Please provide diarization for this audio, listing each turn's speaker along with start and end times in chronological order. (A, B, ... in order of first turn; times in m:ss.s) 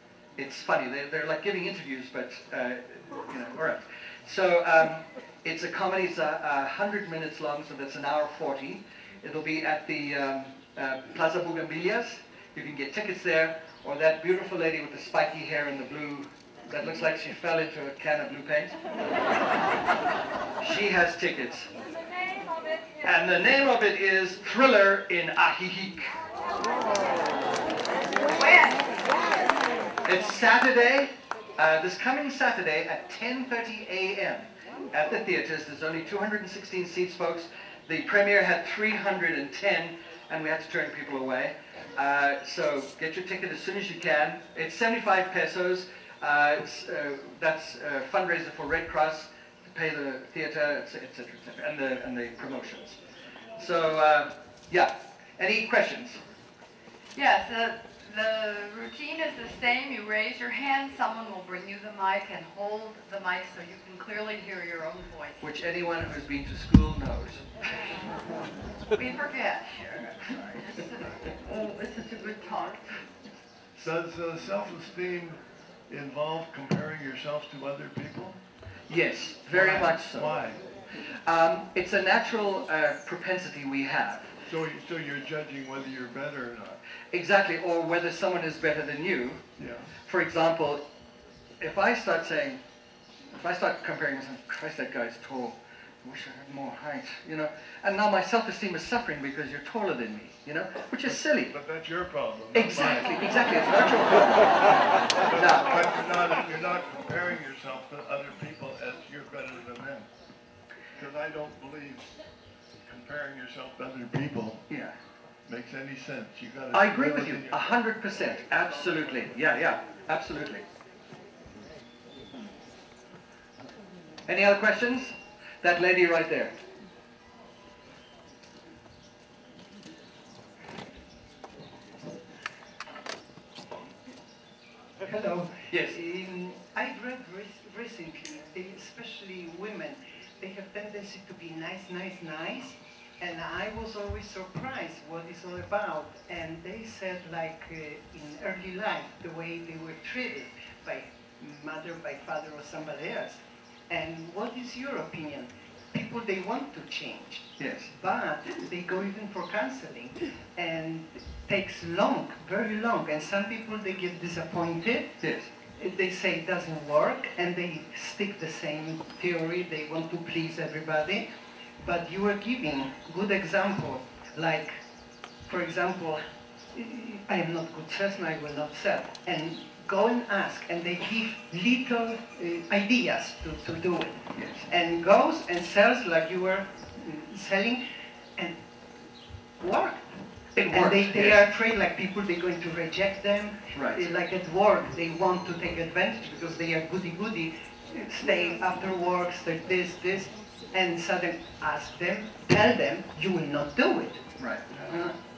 0:00.4-0:18.8 A
0:20.6-0:21.7 A
0:23.0-0:26.2 A
0:28.3-0:29.0 B
0:30.1-0:53.0 A
0:53.6-0:56.2 A
0:57.2-1:05.4 B
1:05.4-1:07.5 A
1:09.0-1:12.9 B
1:13.8-1:15.4 C
1:15.9-1:18.4 C
1:18.9-1:20.4 A
1:19.5-1:20.6 C
1:21.3-1:24.3 A
1:24.5-1:26.8 C
1:27.1-1:29.4 A
1:29.6-1:29.9 C
1:30.1-1:30.8 A
1:31.6-1:32.6 A
1:33.4-1:41.5 A
1:41.5-1:43.2 C
1:42.5-1:44.6 A
1:45.2-1:50.1 C
1:45.3-1:45.8 A
1:51.0-1:52.1 C
1:52.9-1:54.6 C
1:55.5-1:57.6 C
1:56.7-2:00.6 A
2:04.3-2:06.5 A
2:15.0-2:33.4 D
2:15.7-2:16.0 A
2:33.9-2:45.1 D
2:37.6-2:37.9 A
2:45.2-2:45.5 A
2:45.8-2:51.2 D
2:51.8-2:54.8 D
2:55.5-2:56.2 D
2:56.7-3:07.8 D
3:04.4-3:04.7 A
3:09.6-3:10.0 D
3:10.6-3:11.4 A
3:10.7-3:24.2 D
3:13.7-3:14.1 A
3:24.4-3:25.2 A